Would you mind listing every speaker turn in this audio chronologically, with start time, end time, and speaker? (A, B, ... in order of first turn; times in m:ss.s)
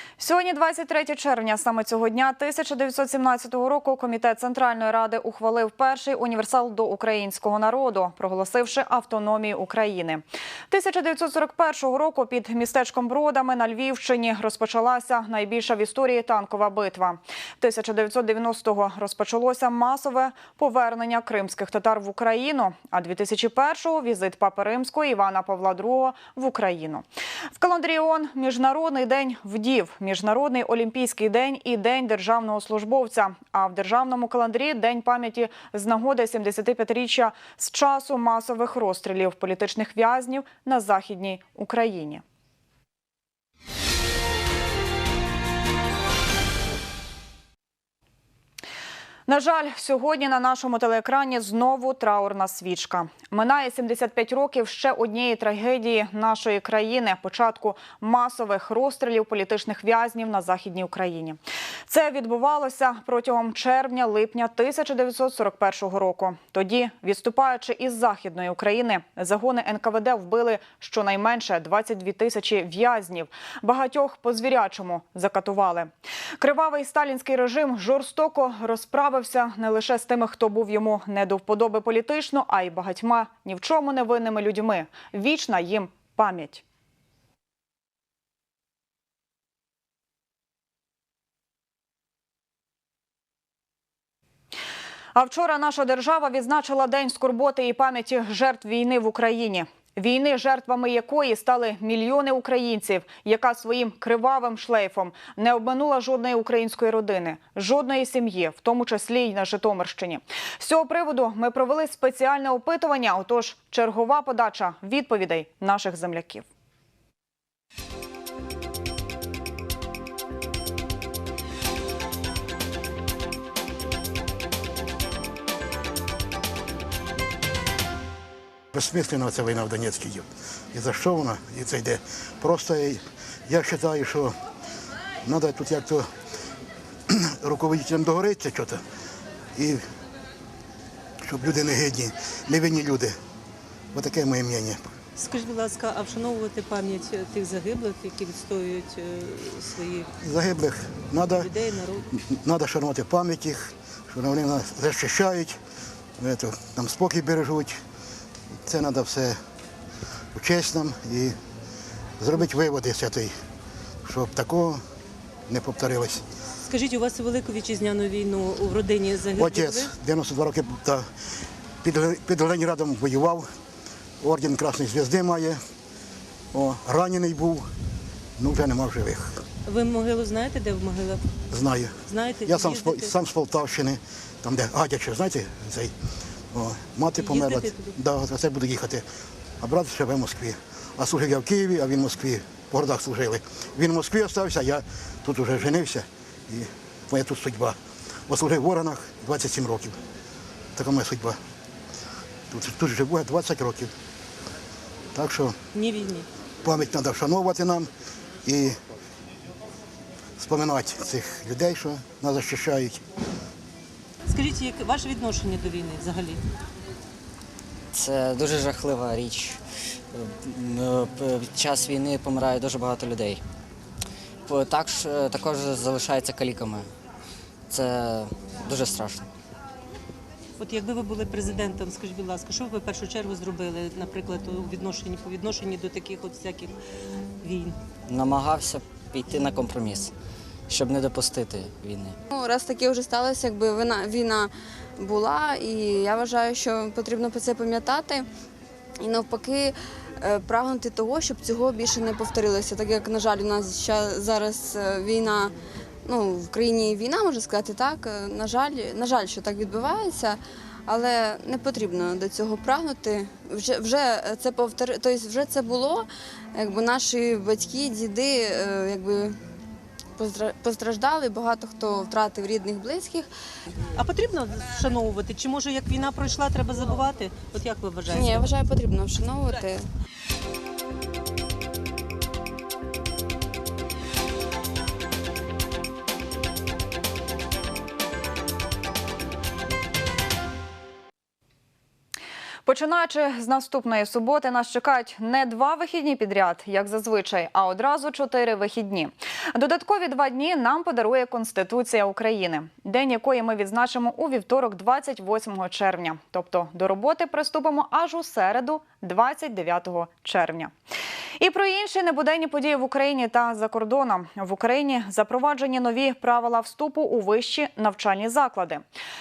0:00.2-0:27.0 A
0:27.6-0:42.2 A
0:49.3-1:26.6 A
1:35.1-1:56.5 A
2:08.7-2:14.4 B
2:15.2-2:16.1 B
2:17.1-2:18.8 B
2:19.6-2:19.8 B
2:21.2-2:23.2 B
2:23.9-2:24.8 B
2:25.2-2:30.1 C
2:30.2-2:31.5 B
2:31.2-2:32.1 C
2:32.1-2:35.6 B
2:36.2-2:37.8 B
2:38.6-2:39.4 B
2:40.3-2:41.4 B
2:42.2-2:43.3 B
2:44.0-2:44.8 B
2:45.5-2:46.2 B
2:46.6-2:49.9 C
2:49.3-2:51.1 B
2:51.8-2:53.5 B
2:54.2-2:55.6 B
2:56.5-2:57.7 B
2:58.4-2:59.4 B
2:59.6-3:01.3 C
3:01.5-3:05.9 B
3:02.0-3:03.1 C
3:06.5-3:09.0 B
3:07.2-3:07.9 C
3:09.6-3:17.8 B
3:18.3-3:20.0 B
3:20.8-3:21.4 B
3:22.5-3:23.9 B
3:25.1-3:25.6 B
3:25.7-3:26.3 C
3:26.6-3:27.9 B
3:28.4-3:28.8 B
3:30.4-3:33.0 B
3:34.3-3:36.4 C
3:37.9-3:39.6 D
3:40.1-3:43.4 D
3:44.5-3:46.9 D
3:47.7-3:49.3 D
3:50.6-3:56.7 C
3:57.4-3:57.7 C
3:58.1-4:00.1 D
4:00.7-4:02.2 D
4:02.3-4:08.2 E
4:09.0-4:15.5 E
4:16.0-4:29.4 E
4:30.2-4:33.3 E
4:33.9-4:38.5 C
4:38.1-4:39.8 E
4:52.6-5:10.7 A
5:11.4-5:18.8 A